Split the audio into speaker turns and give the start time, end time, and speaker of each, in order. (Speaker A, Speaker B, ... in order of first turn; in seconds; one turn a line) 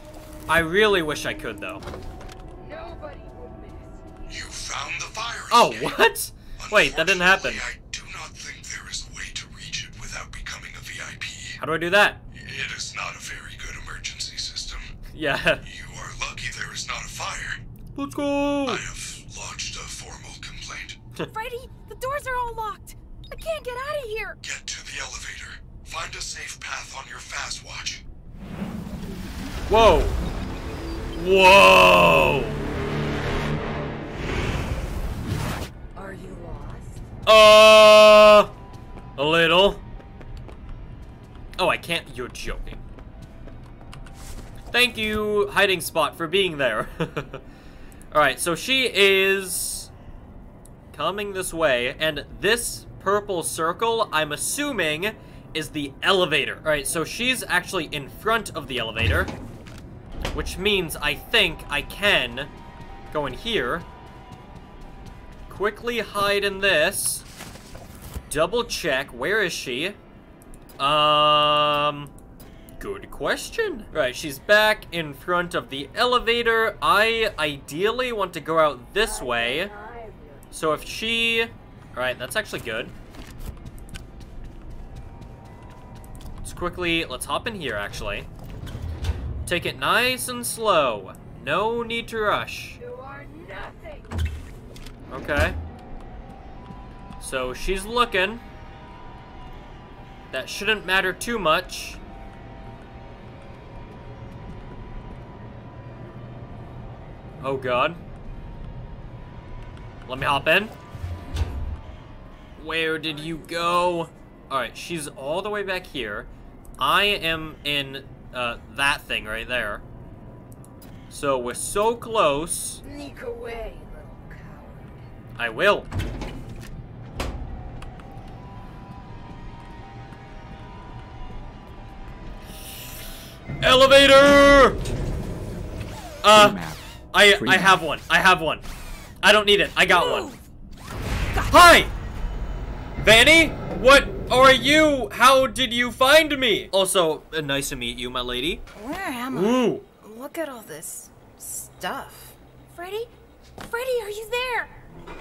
Speaker A: 0.5-1.9
Speaker B: 2.5-4.4
Speaker C: 4.3-6.0
Speaker A: 5.5-7.6
Speaker C: 6.6-11.6
Speaker A: 11.6-12.2
Speaker C: 12.3-14.9
Speaker A: 15.1-15.6
Speaker C: 15.6-17.6
Speaker A: 17.9-18.8
Speaker C: 18.6-21.0
Speaker D: 21.3-24.4
Speaker C: 24.4-28.0
Speaker A: 29.7-30.2
Speaker A: 31.1-32.6
Speaker B: 35.9-37.0
Speaker A: 37.2-38.5
Speaker A: 39.2-39.8
Speaker A: 41.6-42.8
Speaker A: 44.7-47.4
Speaker A: 48.1-49.9
Speaker A: 50.9-59.3
Speaker A: 60.3-62.5
Speaker A: 63.1-63.9
Speaker A: 65.5-67.2
Speaker A: 68.3-70.0
Speaker A: 70.8-72.1
Speaker A: 72.8-79.7
Speaker B: 79.0-80.5
Speaker A: 80.5-82.9
Speaker A: 86.4-88.3
Speaker A: 89.5-92.8
Speaker B: 92.8-94.2
Speaker A: 95.1-95.6
Speaker A: 97.2-98.4
Speaker A: 100.3-102.0
Speaker A: 107.4-108.0
Speaker A: 110.1-110.7
Speaker A: 112.6-116.3
Speaker A: 116.8-119.8
Speaker A: 121.1-122.8
Speaker B: 122.8-125.1
Speaker A: 125.3-125.9
Speaker A: 133.6-134.8
Speaker A: 136.2-138.6
Speaker A: 139.2-140.3
Speaker D: 139.9-140.4
Speaker D: 141.3-141.8
Speaker A: 141.5-141.9
Speaker A: 143.0-148.6
Speaker D: 148.7-154.8
Speaker A: 149.3-149.8